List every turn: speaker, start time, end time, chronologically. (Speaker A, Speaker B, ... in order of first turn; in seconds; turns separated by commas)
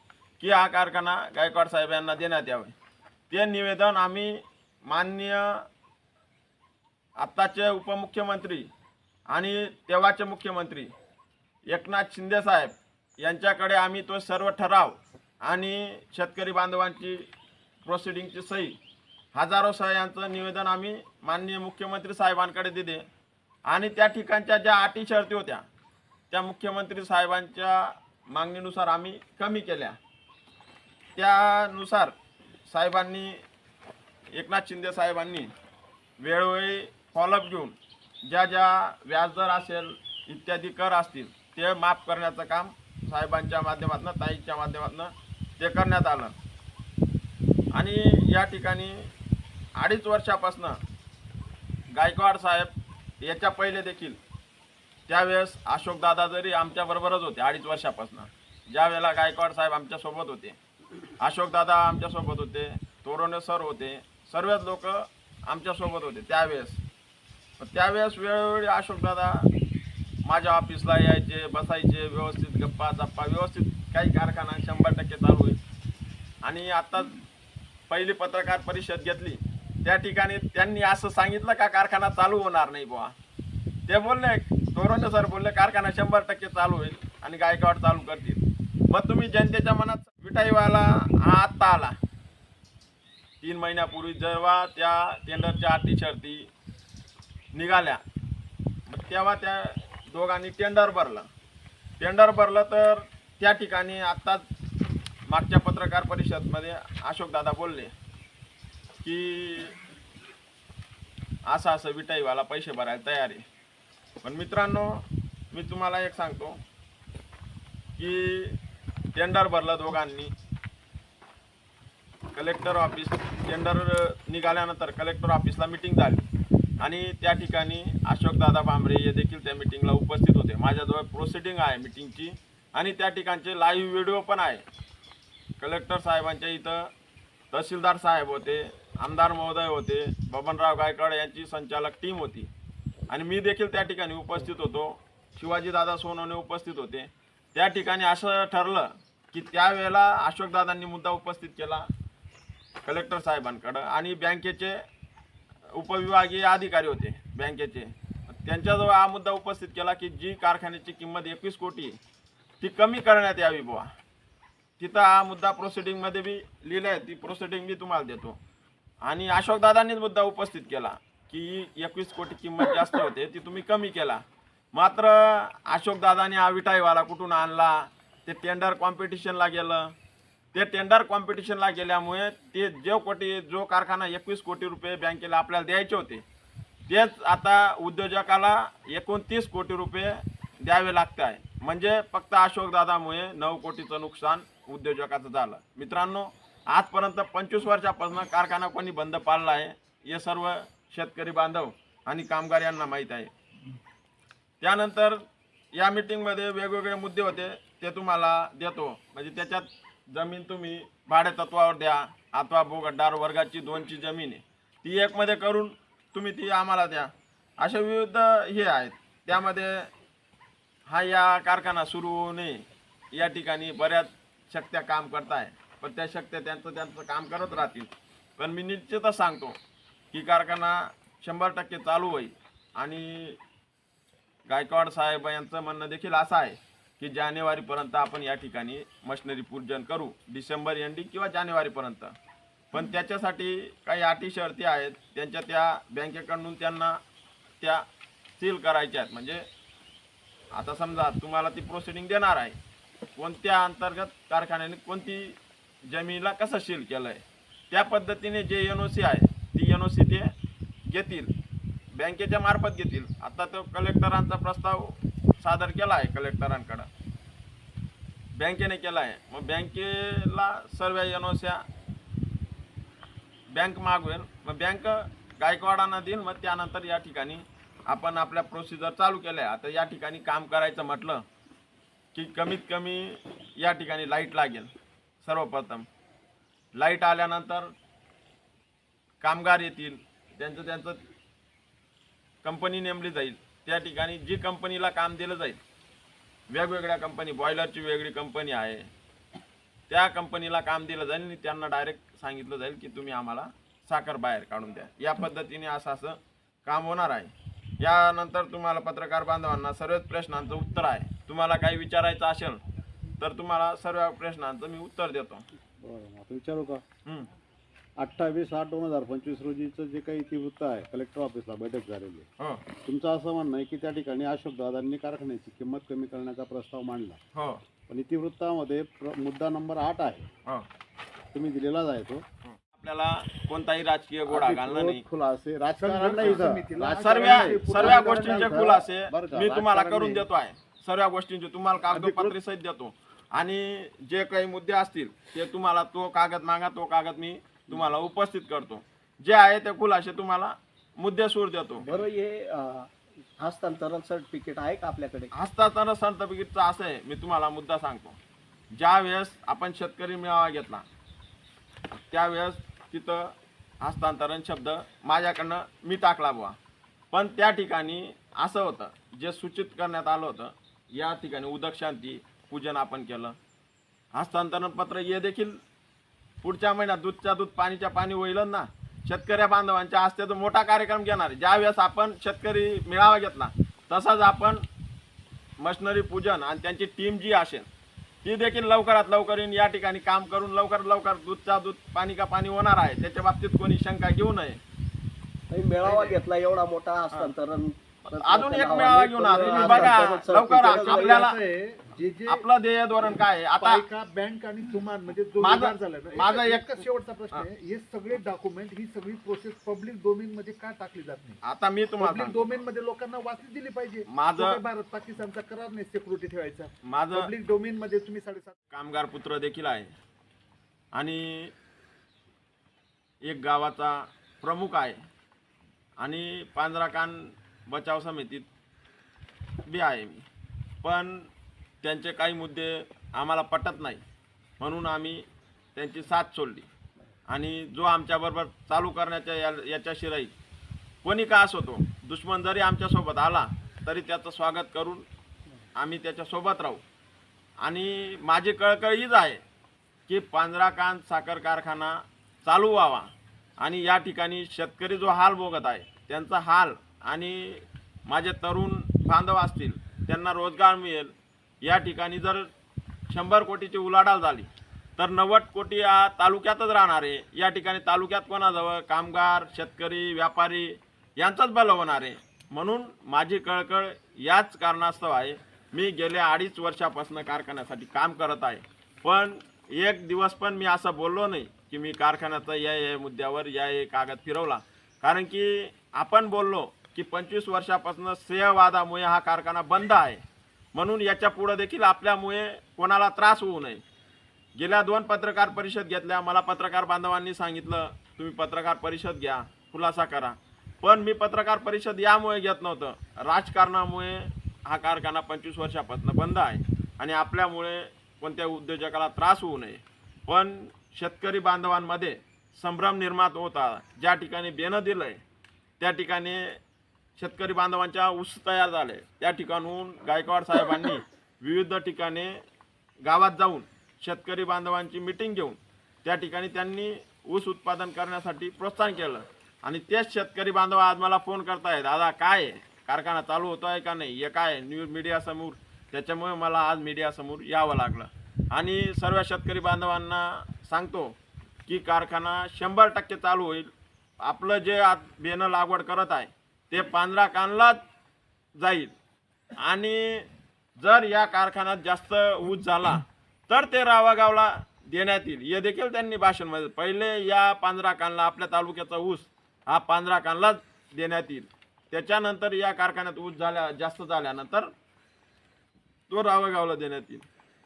Speaker A: 0.4-2.7, Speaker A: 3.3-5.7, Speaker A: 7.2-8.7, Speaker A: 9.3-10.9, Speaker A: 11.7-17.2, Speaker A: 17.8-18.8, Speaker A: 19.3-23.0, Speaker A: 23.7-25.6, Speaker A: 26.3-30.0, Speaker A: 31.1-32.1, Speaker A: 32.7-33.4, Speaker A: 34.3-35.5, Speaker A: 36.2-46.3, Speaker A: 47.7-49.1, Speaker A: 49.8-50.8, Speaker A: 51.9-54.2, Speaker A: 55.1-60.6, Speaker A: 61.2-66.8, Speaker A: 67.6-69.5, Speaker A: 70.2-75.6, Speaker A: 76.4-77.1, Speaker A: 77.9-83.1, Speaker A: 83.9-92.0, Speaker A: 93.4-96.5, Speaker A: 97.5-98.0, Speaker A: 98.9-101.3, Speaker A: 102.0-104.4, Speaker A: 105.3-107.9, Speaker A: 109.0-109.8, Speaker A: 111.5-113.4, Speaker A: 114.2-116.6, Speaker A: 118.0-118.6, Speaker A: 119.1-120.3, Speaker A: 122.3-126.3, Speaker A: 126.8-134.6, Speaker A: 135.6-136.9, Speaker A: 137.5-142.5, Speaker A: 143.1-151.9, Speaker A: 152.8-154.8, Speaker A: 155.7-162.0, Speaker A: 162.6-163.9, Speaker A: 164.8-168.4, Speaker A: 169.0-174.2, Speaker A: 174.7-179.9, Speaker A: 180.5-186.2, Speaker A: 186.9-203.3, Speaker A: 204.6-205.2, Speaker A: 205.7-219.9, Speaker A: 220.9-229.6, Speaker A: 230.1-233.4, Speaker A: 234.5-242.1, Speaker A: 242.7-247.0, Speaker A: 247.6-247.8, Speaker A: 248.4-249.4, Speaker A: 250.5-252.6, Speaker A: 253.2-260.3, Speaker A: 260.9-261.3, Speaker A: 261.9-266.9, Speaker A: 268.4-271.6, Speaker A: 273.5-281.2, Speaker A: 282.1-284.7, Speaker A: 285.2-285.9, Speaker A: 286.7-287.7, Speaker A: 289.2-291.0, Speaker A: 292.4-295.6, Speaker A: 296.5-298.9, Speaker A: 299.9-312.6, Speaker A: 313.2-315.4, Speaker B: 315.8-316.8, Speaker B: 318.0-322.3, Speaker A: 322.4-322.6, Speaker B: 322.8-327.2, Speaker A: 327.3-327.6, Speaker B: 327.9-330.3, Speaker B: 331.3-332.2, Speaker A: 332.4-335.0, Speaker B: 334.3-340.2, Speaker C: 335.8-338.8, Speaker A: 336.2-352.0, Speaker B: 341.9-342.4, Speaker D: 351.8-355.3, Speaker A: 355.3-358.2, Speaker A: 358.7-360.8, Speaker A: 362.1-366.6, Speaker A: 367.1-373.4, Speaker A: 374.1-375.6, Speaker A: 376.4-384.6, Speaker A: 385.6-387.7, Speaker A: 388.2-394.6, Speaker D: 395.5-401.2, Speaker C: 395.8-396.2, Speaker A: 398.1-401.4, Speaker C: 399.3-402.4, Speaker A: 402.3-403.8, Speaker C: 403.6-411.4, Speaker A: 405.4-407.4, Speaker A: 411.4-412.5, Speaker C: 412.0-418.5, Speaker A: 414.1-414.6, Speaker A: 416.8-417.3, Speaker A: 418.7-419.9, Speaker A: 420.9-421.5, Speaker A: 423.2-425.0, Speaker A: 426.0-428.5, Speaker A: 429.6-430.3, Speaker A: 430.8-431.3, Speaker A: 431.8-434.0, Speaker A: 434.6-436.7, Speaker A: 437.3-440.3, Speaker A: 441.0-445.1, Speaker A: 445.8-446.8, Speaker A: 447.6-449.4, Speaker A: 450.1-462.5, Speaker A: 463.1-490.2, Speaker A: 490.7-493.8, Speaker A: 494.6-515.2, Speaker A: 515.8-516.6, Speaker A: 517.2-522.3, Speaker A: 523.0-541.1, Speaker A: 541.7-543.7, Speaker A: 544.2-547.8, Speaker A: 548.5-548.9, Speaker A: 549.6-564.7, Speaker A: 566.1-567.2